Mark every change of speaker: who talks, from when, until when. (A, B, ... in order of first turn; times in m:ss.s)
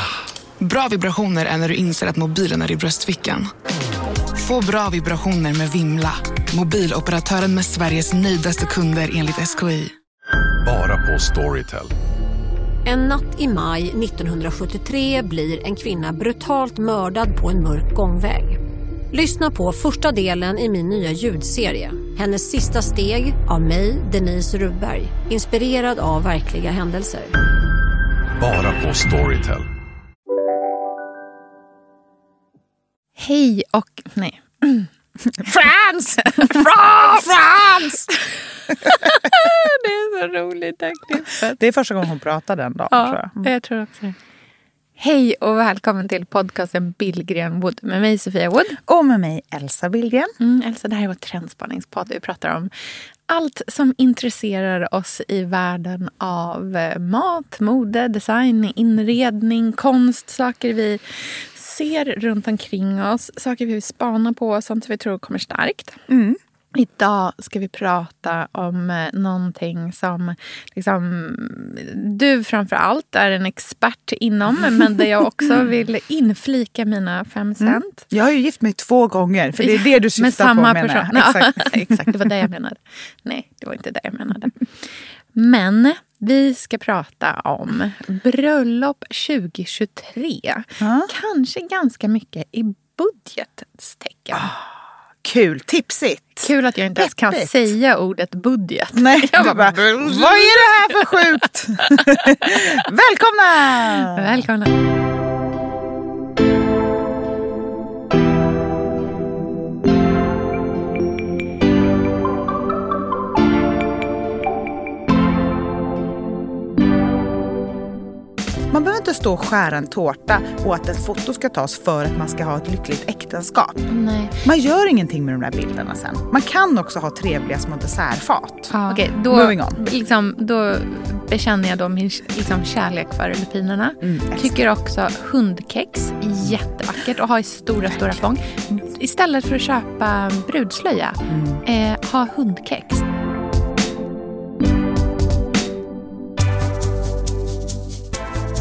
0:00.6-0:03.5 A
0:04.3-0:09.9 A
0:10.6-0:11.9 B
0:12.8-0:18.6 C
0:19.1-0:27.3 C
0:28.4-0:29.7 B
0:33.2-0:34.9 D
0:35.3-0:38.1 E
0:36.2-0:37.3 D
0:38.1-0:41.6 D
0:38.8-0:39.5 E
0:41.5-0:43.5 E
0:42.9-0:44.2 D
0:45.0-0:48.8 D
0:48.9-0:50.3 E
0:50.4-0:52.7 D
0:53.3-1:06.0 D
1:06.1-1:06.4 E
1:06.8-1:18.0 D
1:17.6-1:22.2 E
1:19.6-1:24.6 D
1:25.4-1:34.5 D
1:30.8-1:31.1 E
1:34.3-1:37.7 E
1:36.4-1:42.6 D
1:38.9-1:44.4 E
1:44.1-1:44.7 D
1:58.7-2:09.8 E
2:03.9-2:04.4 D
2:08.7-2:23.1 D
2:14.0-2:14.6 E
2:21.3-2:21.6 E